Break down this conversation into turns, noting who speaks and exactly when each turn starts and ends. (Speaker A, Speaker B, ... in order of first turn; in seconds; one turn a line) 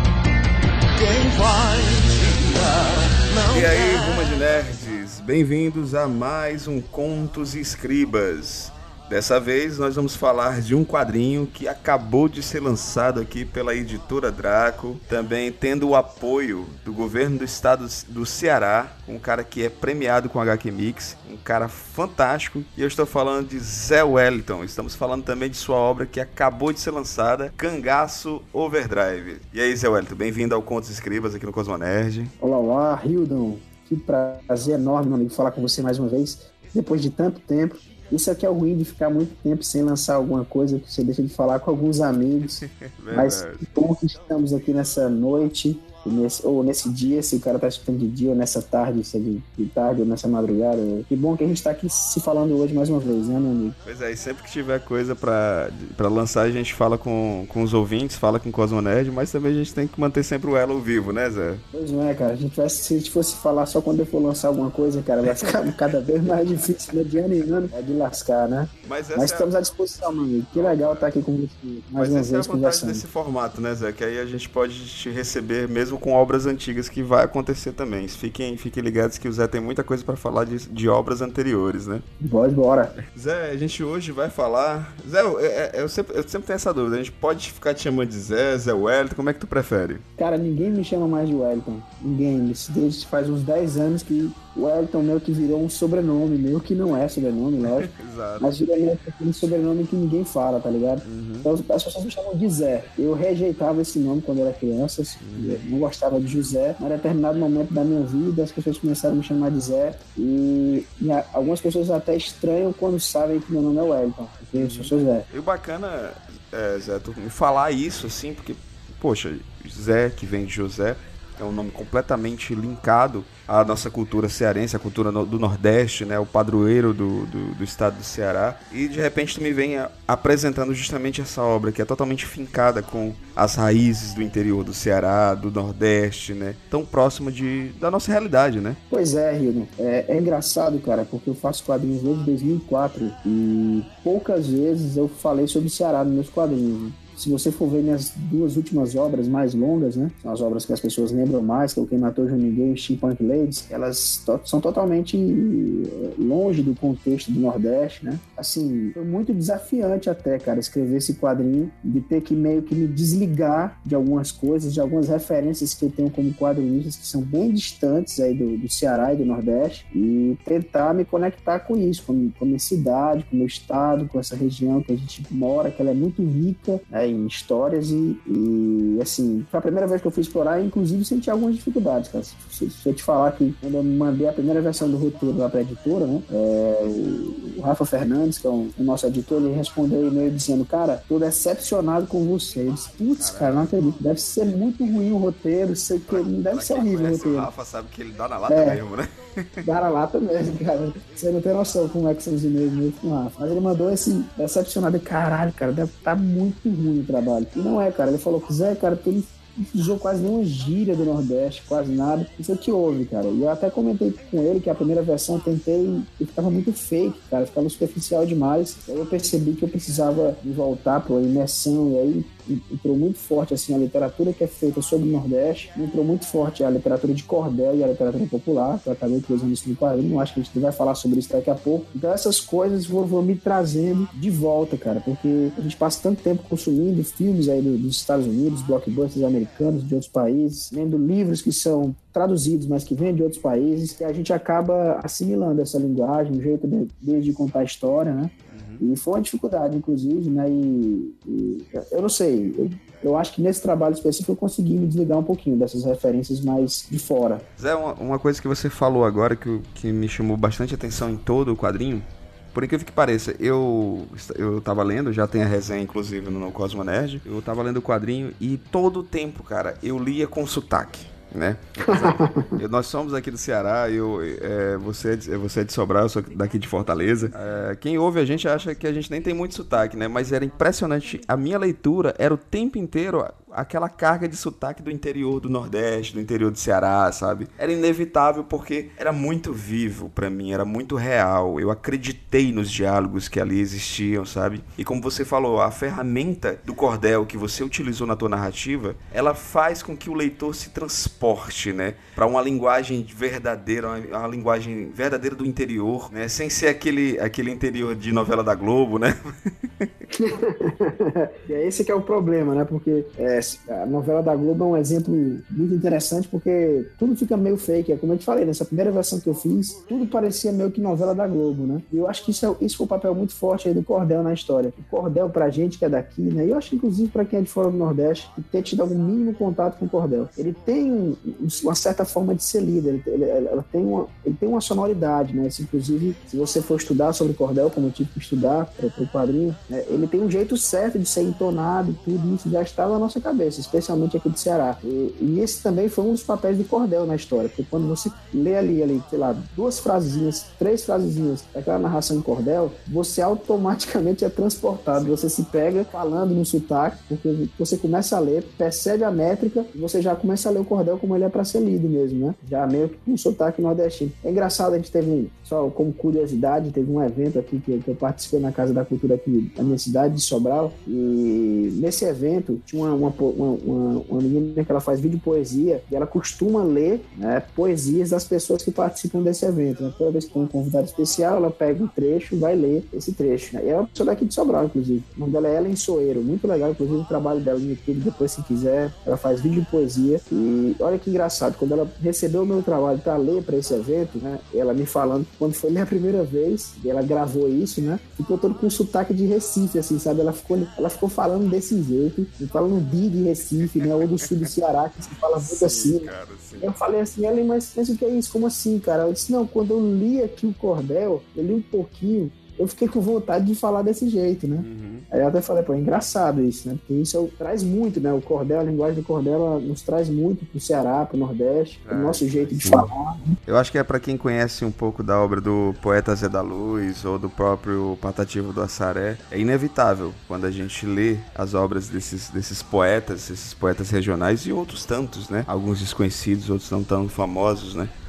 Speaker A: 1.0-4.3
Speaker B: 3.5-32.3
Speaker C: 32.4-53.8
Speaker B: 42.6-43.6
Speaker B: 53.9-61.6
Speaker C: 61.7-73.0
Speaker B: 68.8-69.5
Speaker B: 70.5-71.1
Speaker B: 72.0-82.0
Speaker C: 82.2-83.0
Speaker B: 83.1-90.0
Speaker C: 90.2-115.3
Speaker B: 97.8-98.5
Speaker B: 101.0-101.5
Speaker B: 105.2-105.6
Speaker B: 114.5-138.8
Speaker C: 138.9-197.5
Speaker B: 193.2-193.8
Speaker B: 196.1-199.7
Speaker C: 198.5-198.8
Speaker C: 199.6-257.5
Speaker B: 248.5-248.8
Speaker B: 257.6-309.9
Speaker C: 271.9-272.5
Speaker C: 310.1-423.4
Speaker B: 404.0-404.5
Speaker B: 405.5-406.7
Speaker B: 414.6-415.1
Speaker B: 421.9-422.9
Speaker B: 423.4-437.9